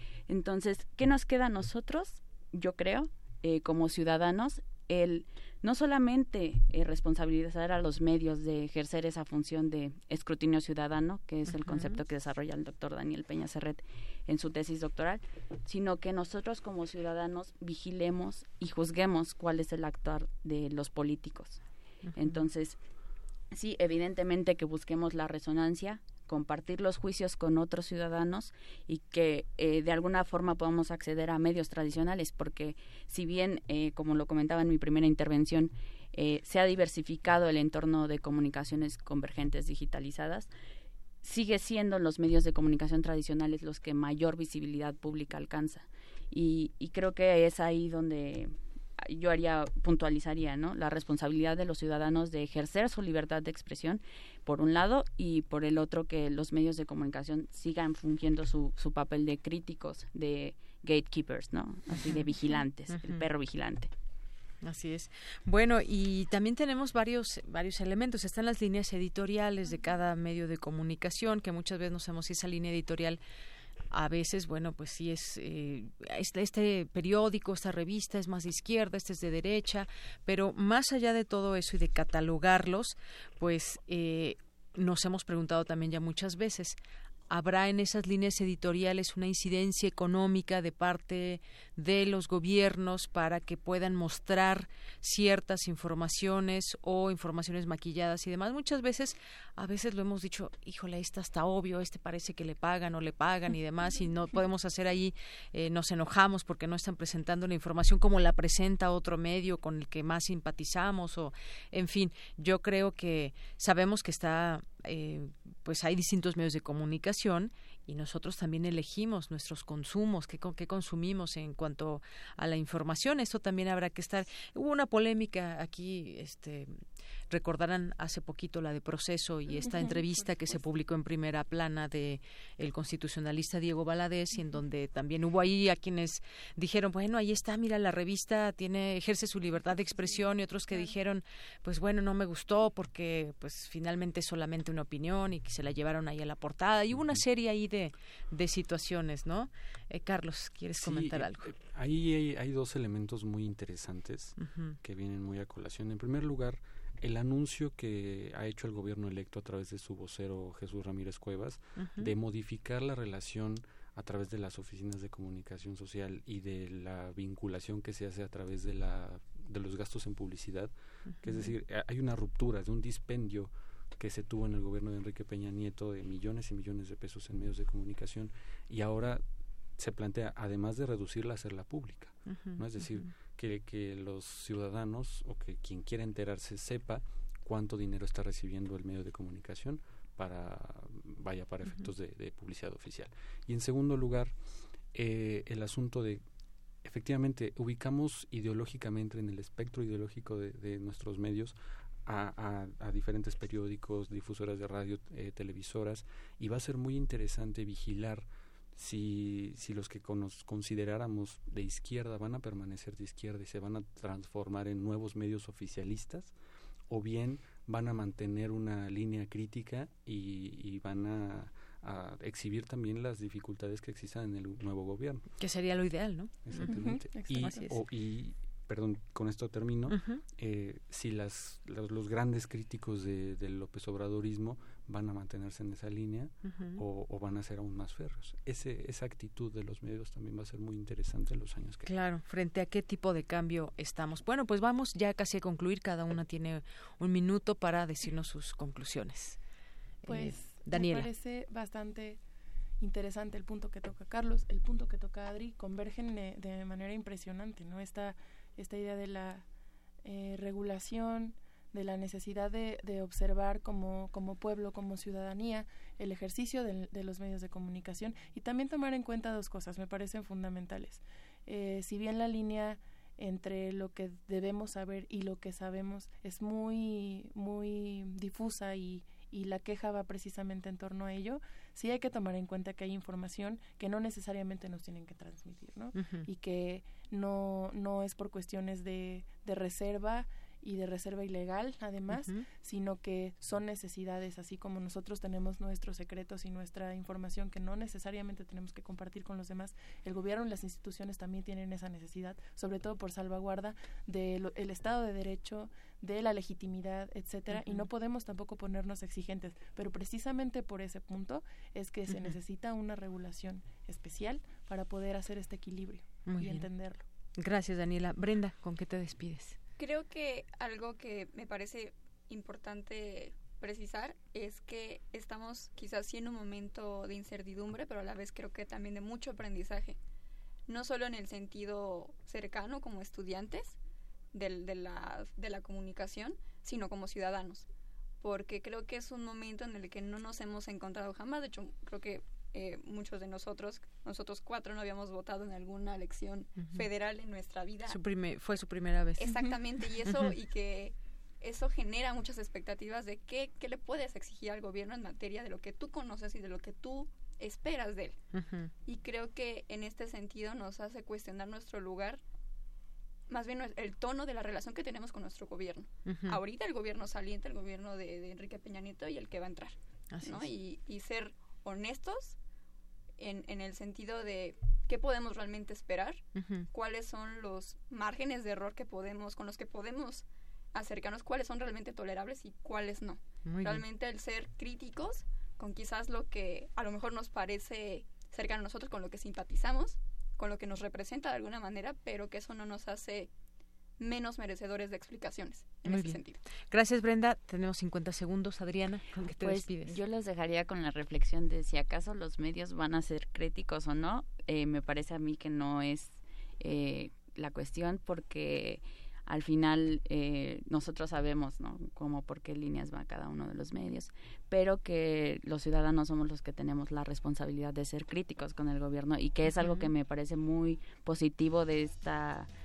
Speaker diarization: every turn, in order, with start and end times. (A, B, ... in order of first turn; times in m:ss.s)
0:00.3-0:21.6 A
0:11.7-0:12.0 B
0:22.1-0:22.4 B
0:22.2-0:22.8 A
0:23.5-0:40.5 A
0:41.2-1:03.9 A
1:02.0-1:03.2 B
1:04.6-1:13.2 B
1:13.9-1:26.8 B
1:27.3-2:31.4 B
2:09.6-2:10.2 C
2:26.9-2:27.2 D
2:30.8-2:59.2 D
2:34.4-2:34.8 B
2:41.8-2:42.1 B
2:51.1-2:51.5 B
2:59.8-3:14.3 D
3:02.3-3:03.1 B
3:14.9-3:16.2 D
3:16.8-3:21.6 D
3:22.1-3:36.3 D
3:36.9-3:45.2 D
3:45.4-3:47.8 B
3:46.4-4:01.9 D
3:46.7-3:47.7 C
3:49.9-3:50.2 B
3:56.4-3:56.8 B
4:01.8-4:09.4 B
4:10.0-4:11.1 B
4:10.1-4:12.2 C
4:12.8-4:19.4 C
4:20.0-5:17.0 C
4:45.9-4:46.3 B
4:52.1-4:52.4 B
5:07.5-5:07.8 B
5:12.1-5:12.3 B
5:16.2-5:16.7 B
5:17.4-5:19.6 B
5:19.8-5:30.0 E
5:30.7-5:33.8 E
5:34.3-5:37.7 E
5:38.2-5:48.0 E
5:46.6-5:46.9 B
5:47.9-5:50.3 B
5:49.2-5:58.2 E
5:58.3-5:58.7 B
5:58.8-6:02.2 E
6:03.3-6:12.4 E
6:06.0-6:06.4 B
6:10.1-6:10.5 B
6:13.2-6:33.3 E
6:16.3-6:16.7 B
6:23.4-6:23.8 B
6:34.0-6:36.4 E
6:35.8-6:40.0 B
6:39.4-7:02.5 A
6:59.6-6:59.9 B